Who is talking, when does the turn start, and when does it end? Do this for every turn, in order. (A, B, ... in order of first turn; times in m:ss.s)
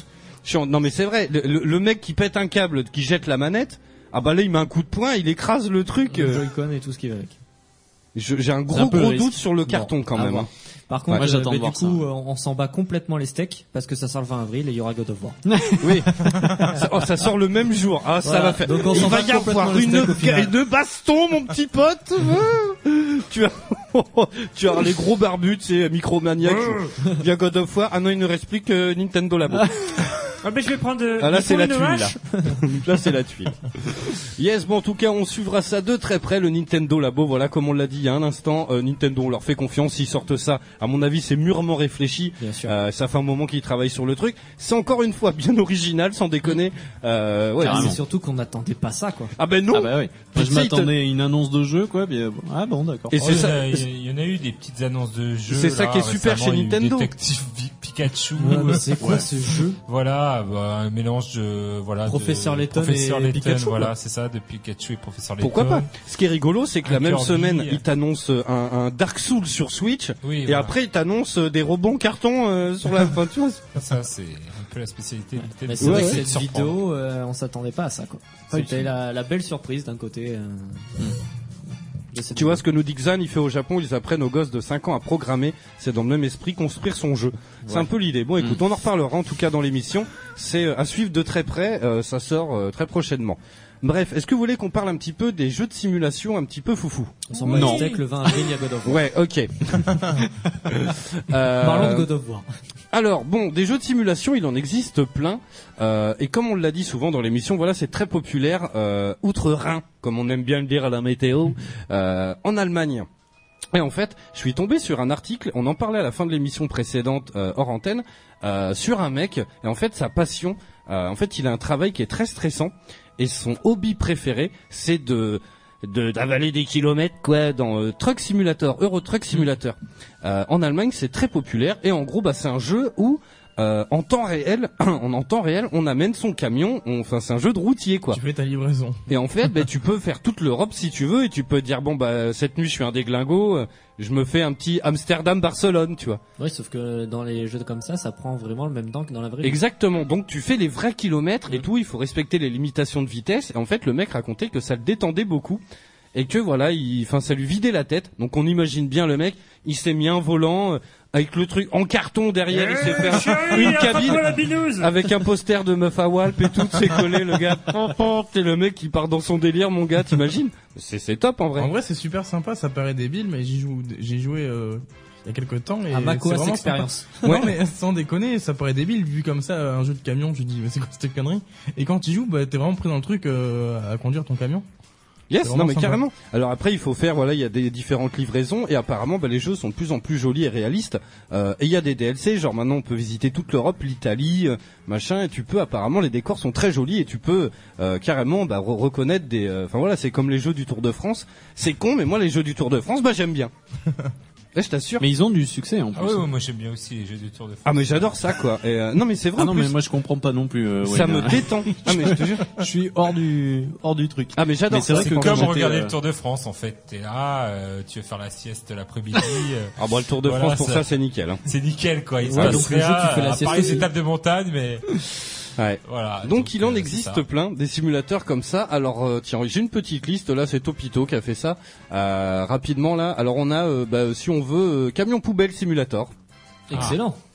0:00.4-0:06.4 A
0:06.1-0:07.4 B
0:08.1-0:10.5 A
0:08.7-0:09.4 C
0:09.6-0:15.4 B
0:11.1-0:12.0 C
0:15.4-0:16.8 C
0:15.8-0:30.3 A
0:18.2-0:20.5 B
0:30.4-0:32.1 D
0:31.2-0:48.0 A
0:31.6-0:32.6 B
0:42.4-0:42.7 B
0:47.6-0:49.3 B
0:47.6-0:48.0 C
0:49.4-0:50.9 A
0:49.7-0:53.2 C
0:53.1-0:53.8 A
0:53.2-0:59.2 E
0:55.5-0:57.1 A
0:58.4-0:59.8 B
0:59.9-1:05.9 E
1:02.0-1:03.9 B
1:05.4-1:13.7 A
1:06.8-1:07.8 E
1:10.2-1:10.7 E
1:13.7-1:16.7 E
1:15.6-1:20.9 B
1:15.8-1:16.2 A
1:18.5-1:18.9 C
1:22.1-1:22.6 B
1:22.3-1:37.8 A
1:37.3-1:39.0 B
1:37.5-1:37.9 C
1:38.8-1:42.1 A
1:41.6-1:42.4 B
1:42.9-1:53.1 A
1:53.7-2:18.2 A
2:18.1-2:19.0 F
2:19.1-2:26.2 A
2:26.4-2:29.6 B
2:29.4-2:35.6 A
2:36.1-2:51.7 A
2:42.5-2:44.9 D
2:51.6-3:04.6 F
2:55.9-2:57.1 B
2:57.2-2:57.5 A
3:05.3-3:23.5 A
3:05.4-3:06.0 F
3:24.5-3:25.0 A
3:25.0-3:26.3 C
3:25.9-3:28.1 E
3:27.6-3:29.8 A
3:29.4-3:35.9 C
3:30.8-3:32.5 A
3:34.3-3:35.6 A
3:34.8-3:39.7 E
3:39.8-3:41.4 A
3:40.2-3:40.9 E
3:41.4-3:44.8 E
3:42.3-3:42.7 A
3:42.3-3:43.9 B
3:45.6-3:56.1 A
3:45.8-3:47.2 E
3:56.7-3:57.2 B